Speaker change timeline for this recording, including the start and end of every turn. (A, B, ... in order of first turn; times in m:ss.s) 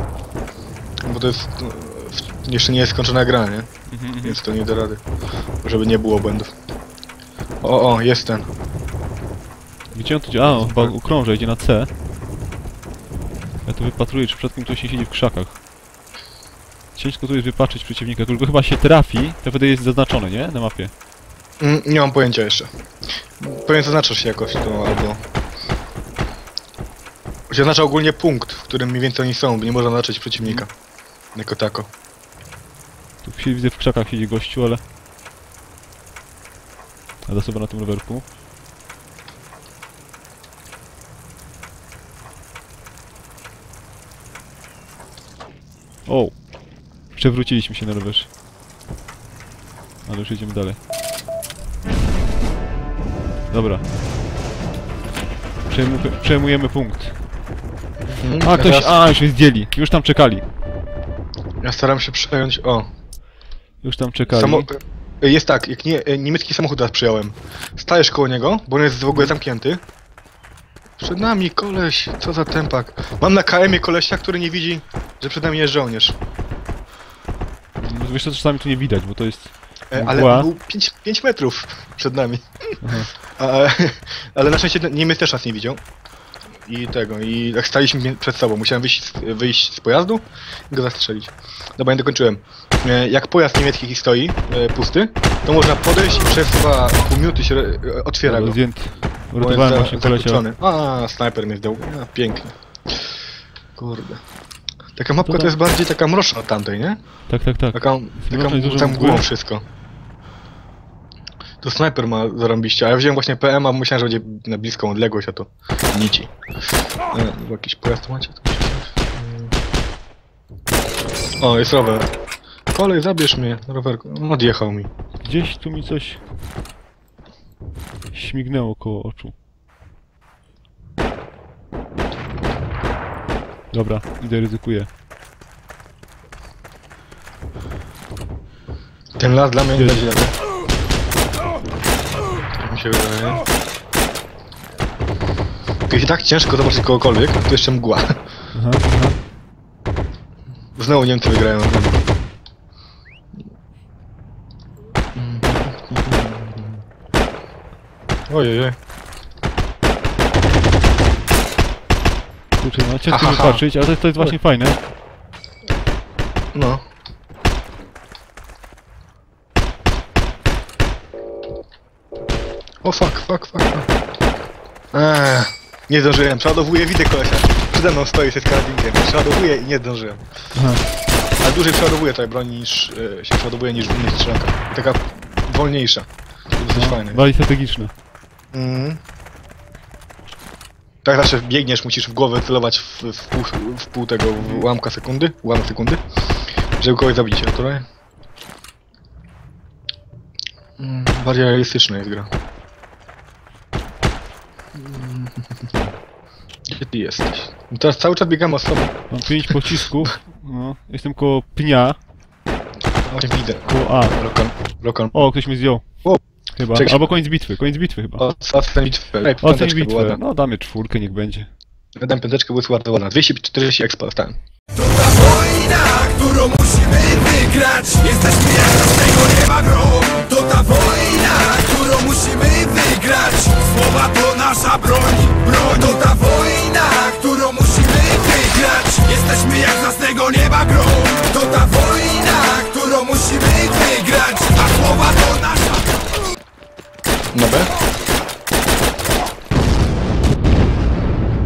0:01.1-0:03.7 A
0:03.9-0:04.4 B
0:04.2-0:05.0 A
0:05.6-0:06.5 A
0:07.6-0:08.5 A
0:10.0-0:11.9 B
0:10.5-0:10.9 A
0:13.6-0:15.6 B
0:17.0-0:20.9 B
0:21.6-0:22.7 A
0:23.4-0:25.2 A
0:27.5-0:30.7 A
0:30.4-0:30.6 B
0:31.4-0:31.9 A
0:33.2-0:34.8 B
0:37.3-0:38.2 B
0:46.1-0:46.5 B
0:47.1-0:48.3 B
0:50.1-0:50.8 B
0:53.5-0:53.8 B
0:55.7-0:57.2 B
0:58.2-0:59.0 A
0:58.4-1:00.4 B
1:01.6-1:02.9 A
1:03.8-1:04.7 B
1:04.3-1:09.8 A
1:11.0-1:16.2 A
1:17.8-1:20.5 B
1:19.9-1:25.8 A
1:22.8-1:23.1 B
1:26.6-1:38.6 A
1:38.2-1:40.4 B
1:39.4-1:42.5 A
1:43.8-1:44.2 A
1:45.0-1:47.0 A
1:45.2-1:45.6 B
1:47.3-1:49.2 B
1:47.7-1:49.6 A
1:51.6-1:56.3 A
1:57.1-1:59.5 A
2:01.4-2:02.1 A
2:02.7-2:04.9 A
2:05.2-2:06.2 B
2:08.1-2:09.3 B
2:13.7-2:14.9 B
2:19.2-2:20.4 A
2:19.8-2:20.0 B
2:22.6-2:23.4 A
2:25.9-2:28.1 A
2:28.5-2:29.2 B
2:30.8-2:32.0 A
2:35.2-2:36.8 A
2:38.3-2:38.8 A
2:42.6-2:44.8 B
2:43.1-2:43.6 A
2:46.5-2:46.8 A
2:52.8-2:53.9 A
2:54.9-3:00.2 A
3:00.6-3:00.8 B
3:01.4-3:06.1 A
3:06.6-3:07.2 A
3:06.7-3:07.9 B
3:08.5-3:09.0 A
3:11.0-3:16.0 A
3:14.4-3:14.7 B
3:16.8-3:17.8 A
3:20.8-3:22.3 A
3:24.8-3:25.9 A
3:26.7-3:29.0 A
3:29.1-3:32.0 B
3:33.0-3:35.3 A
3:33.7-3:34.2 B
3:35.1-3:35.9 B
3:36.6-3:38.3 B
3:36.7-3:37.1 A
3:38.2-3:40.2 A
3:39.4-3:41.5 B
3:42.0-3:44.4 A
3:44.9-4:05.8 C
4:07.3-4:07.7 A